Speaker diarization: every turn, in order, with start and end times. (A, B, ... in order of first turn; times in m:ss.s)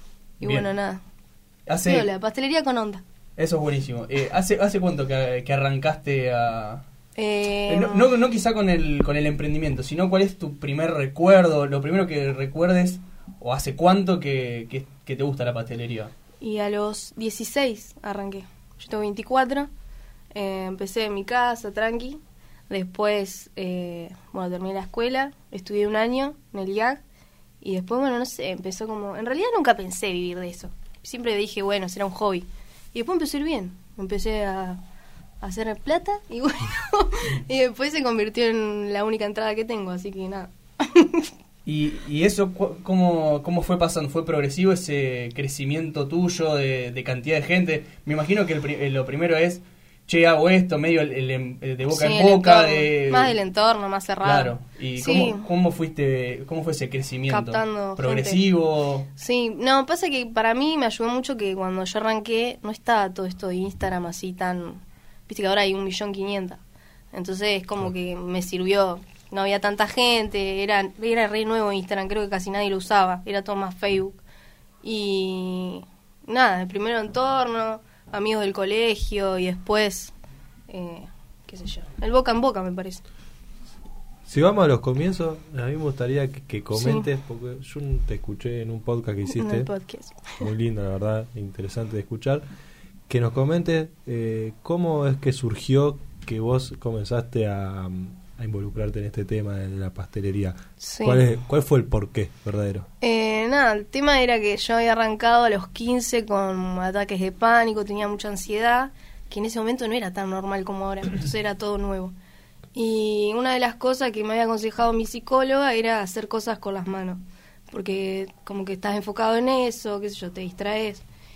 0:00.4-0:01.0 A
0:00.4-0:00.7 B
0:01.7-0:02.1 B
0:01.8-0:03.0 A
0:03.4-0:06.8 B
0:07.2-0:08.1 A
0:07.7-0:16.1 B
0:16.4-0:19.7 A
0:20.3-0:27.0 A
0:27.6-0:34.8 A
0:35.4-0:41.3 A
0:41.6-0:53.3 B
0:51.9-0:55.5 A
0:54.2-0:59.1 B
0:57.3-0:58.4 A
0:59.2-1:06.6 A
1:07.1-1:14.2 A
1:14.8-1:20.1 A
1:20.7-1:23.0 A
1:24.2-1:29.7 C
1:26.7-1:27.1 A
1:29.3-1:30.4 A
1:30.4-1:32.4 C
1:33.1-1:42.9 C
1:40.8-1:41.2 A
1:43.0-1:52.1 A
1:52.7-2:01.0 A